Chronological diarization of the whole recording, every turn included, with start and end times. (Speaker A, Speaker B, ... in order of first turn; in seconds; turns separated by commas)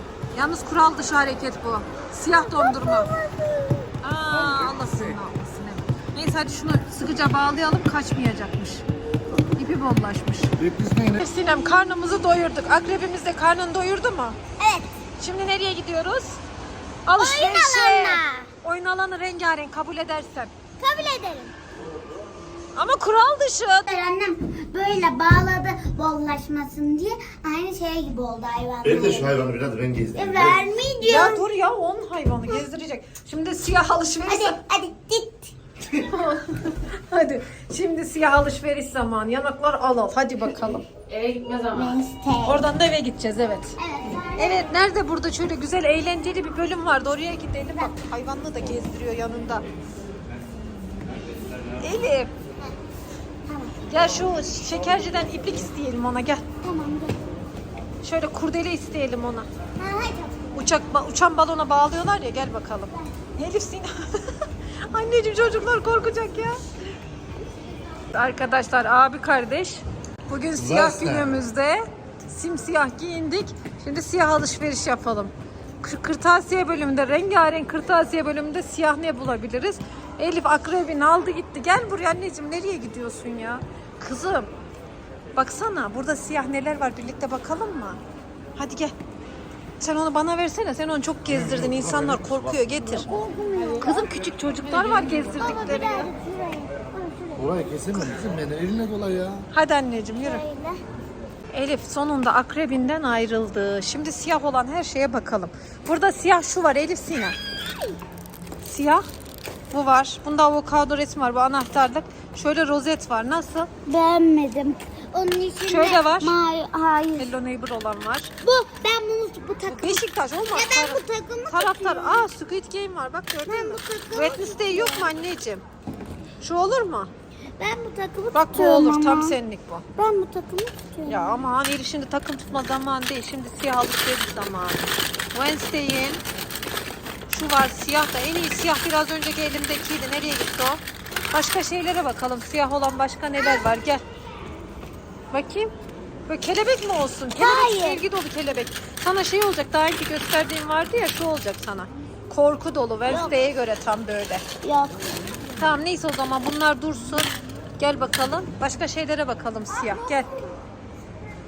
Speaker A: 0.3-3.1, Speaker B: 2.3-3.9, Speaker A: 4.0-8.8, Speaker C: 4.3-5.0, Speaker A: 9.5-10.5, Speaker C: 10.6-11.2, Speaker A: 11.1-14.4, Speaker B: 14.6-14.9, Speaker A: 15.2-16.4, Speaker A: 17.1-20.5, Speaker B: 17.1-18.5, Speaker B: 20.8-21.5, Speaker A: 22.8-23.9, Speaker B: 23.9-29.5, Speaker C: 28.8-30.6, Speaker B: 30.1-31.5, Speaker A: 31.0-34.6, Speaker B: 34.2-35.5, Speaker A: 35.9-43.8, Speaker B: 41.7-42.7, Speaker B: 43.8-44.8, Speaker A: 44.4-49.6, Speaker A: 51.8-52.3, Speaker B: 53.5-54.0, Speaker A: 53.9-56.4, Speaker B: 56.6-57.2, Speaker A: 58.0-59.5, Speaker B: 59.8-60.7, Speaker A: 60.5-64.3, Speaker A: 64.9-66.6, Speaker A: 68.1-84.5, Speaker C: 70.6-71.4, Speaker A: 85.3-88.0, Speaker A: 88.6-88.9, Speaker A: 89.8-93.1, Speaker C: 91.3-92.6, Speaker B: 92.9-94.1, Speaker A: 93.8-96.1, Speaker B: 95.2-97.8, Speaker C: 97.3-99.5, Speaker A: 99.5-100.4, Speaker B: 100.2-100.8, Speaker A: 101.5-107.4, Speaker A: 108.6-109.0, Speaker A: 109.7-113.7, Speaker B: 113.9-117.3, Speaker A: 115.7-116.3, Speaker A: 117.2-118.3, Speaker B: 118.4-122.3, Speaker A: 119.7-125.6, Speaker B: 123.5-125.2, Speaker A: 126.4-127.1, Speaker B: 127.6-129.4, Speaker A: 128.3-129.8, Speaker B: 130.0-131.5, Speaker A: 131.1-134.8, Speaker A: 135.3-136.2, Speaker A: 137.3-144.0, Speaker A: 145.3-145.7, Speaker A: 146.3-154.4, Speaker B: 147.3-148.0, Speaker B: 153.1-153.5, Speaker B: 154.6-155.1, Speaker A: 155.6-160.3, Speaker B: 159.7-160.4